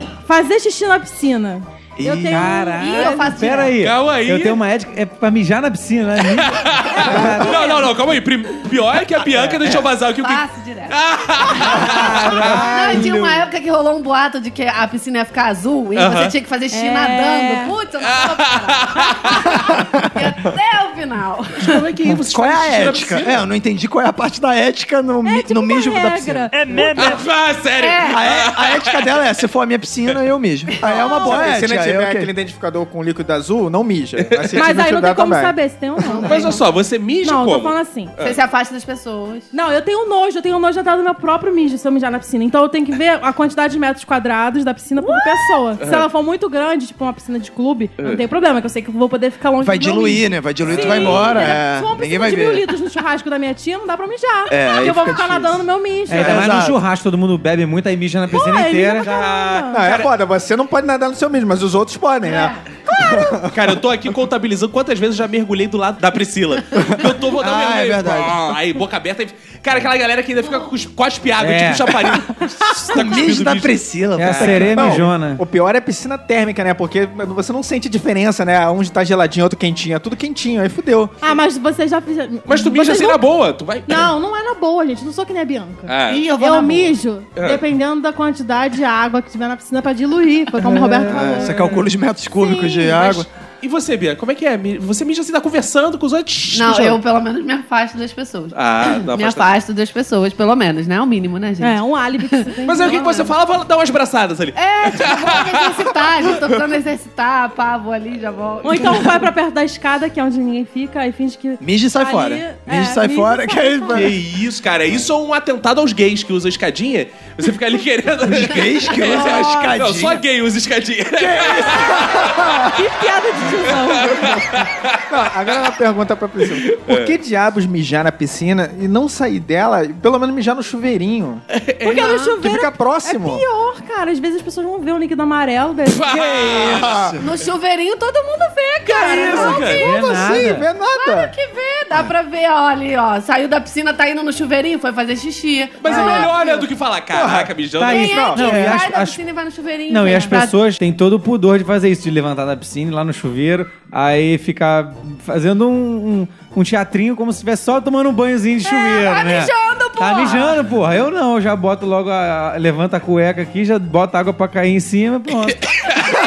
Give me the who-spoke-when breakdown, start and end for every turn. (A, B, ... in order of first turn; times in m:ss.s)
0:00.3-0:03.4 A
0:02.0-0:02.5 B
0:02.3-0:07.8 C
0:02.8-0:03.8 D
0:03.8-0:04.6 E
0:06.3-0:12.7 E
0:06.8-0:08.0 A
0:09.7-0:21.9 D
0:11.8-0:12.1 B
0:11.8-0:13.2 C
0:16.0-0:16.4 E
0:16.7-0:17.8 A
0:18.0-0:19.5 E
0:21.6-0:23.4 E
0:22.2-0:26.5 B
0:25.2-0:27.1 A
0:26.8-0:29.1 E
0:27.8-0:28.2 D
0:28.1-0:32.3 B
0:30.9-0:31.5 A
0:31.1-0:35.6 F
0:34.2-0:34.6 E
0:34.6-0:36.6 A
0:36.0-0:36.7 D
0:36.2-0:38.4 E
0:37.2-0:38.1 A
0:38.2-0:39.5 D
0:39.5-0:56.6 A
0:45.8-0:46.1 E
0:49.6-0:52.7 B
0:50.6-0:51.6 E
0:54.5-0:55.6 B
0:56.1-0:59.6 C
0:56.2-0:56.8 B
0:58.3-0:59.9 A
0:59.7-1:03.6 F
0:59.8-1:00.1 E
1:02.2-1:02.6 D
1:02.9-1:03.5 A
1:03.5-1:14.6 E
1:07.3-1:08.5 B
1:11.4-1:12.1 C
1:12.8-1:15.0 B
1:14.2-1:15.4 C
1:14.4-1:21.2 F
1:21.2-1:23.2 A
1:22.5-1:24.1 E
1:23.9-1:33.3 A
1:25.9-1:26.4 E
1:27.4-1:27.6 E
1:31.0-1:33.3 B
1:33.6-1:37.0 E
1:36.5-1:43.3 D
1:38.5-1:39.5 E
1:41.6-1:43.2 A
1:42.7-1:46.4 E
1:44.6-1:49.3 D
1:48.6-1:54.1 A
1:51.6-1:54.2 B
1:53.9-2:02.6 E
1:58.2-2:00.2 B
1:59.0-1:59.8 A
2:01.2-2:02.7 B
2:02.7-2:04.4 A
2:03.8-2:05.0 E
2:05.1-2:11.4 F
2:06.5-2:07.2 E
2:11.5-2:12.2 E
2:11.8-2:16.2 A
2:12.4-2:13.4 F
2:15.9-2:17.2 E
2:16.4-2:17.2 B
2:16.6-2:17.0 F
2:17.2-2:19.9 D
2:18.9-2:19.9 A
2:18.9-2:19.9 E
2:19.7-2:20.7 C
2:20.0-2:21.3 F
2:20.9-2:26.7 D
2:25.8-2:28.2 E
2:27.1-2:28.8 F
2:27.8-2:29.2 C
2:27.8-2:30.6 D
2:29.9-2:45.7 C
2:30.1-2:30.3 A
2:38.6-2:40.6 D